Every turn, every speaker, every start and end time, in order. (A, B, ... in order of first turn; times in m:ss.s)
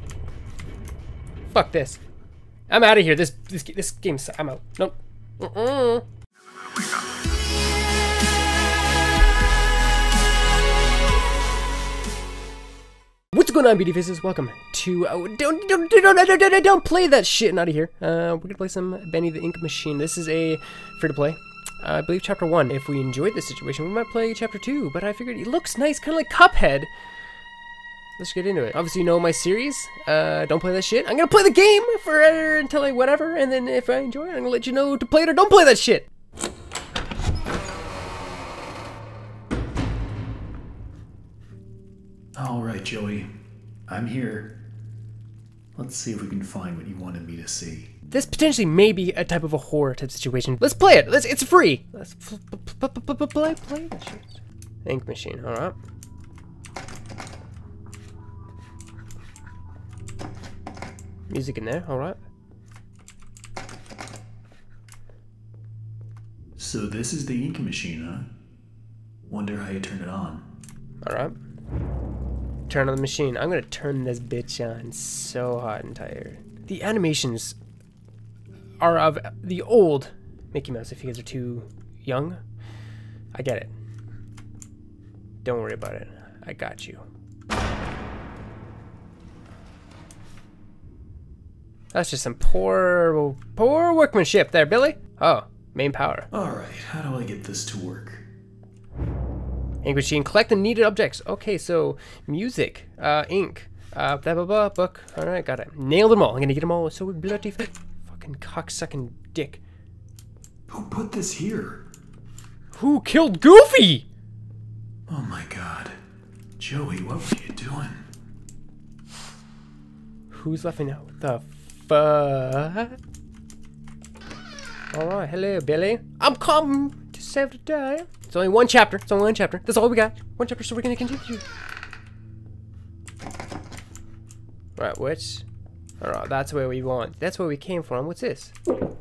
0:01.5-0:02.0 A
0:02.7-0:06.0 A
0:13.3-0:26.9 A
0:28.2-0:36.1 A
0:42.4-0:43.3 B
0:43.9-0:44.6 B
0:45.8-0:47.9 B
0:48.1-0:55.8 A
1:01.3-1:02.2 A
1:06.6-1:08.3 B
1:09.3-1:10.4 B
1:11.0-1:11.4 A
1:12.7-1:17.6 A
1:18.8-1:22.4 A
1:23.3-1:23.7 A
1:25.4-1:27.1 A
1:31.9-1:36.3 A
1:36.3-1:38.3 B
1:39.8-1:49.6 A
1:50.7-1:51.8 B
1:52.7-1:54.1 A
1:55.1-1:55.9 B
1:56.6-1:58.1 B
2:00.3-2:03.0 A
2:04.9-2:11.4 A
2:14.8-2:15.4 A
2:16.0-2:18.5 A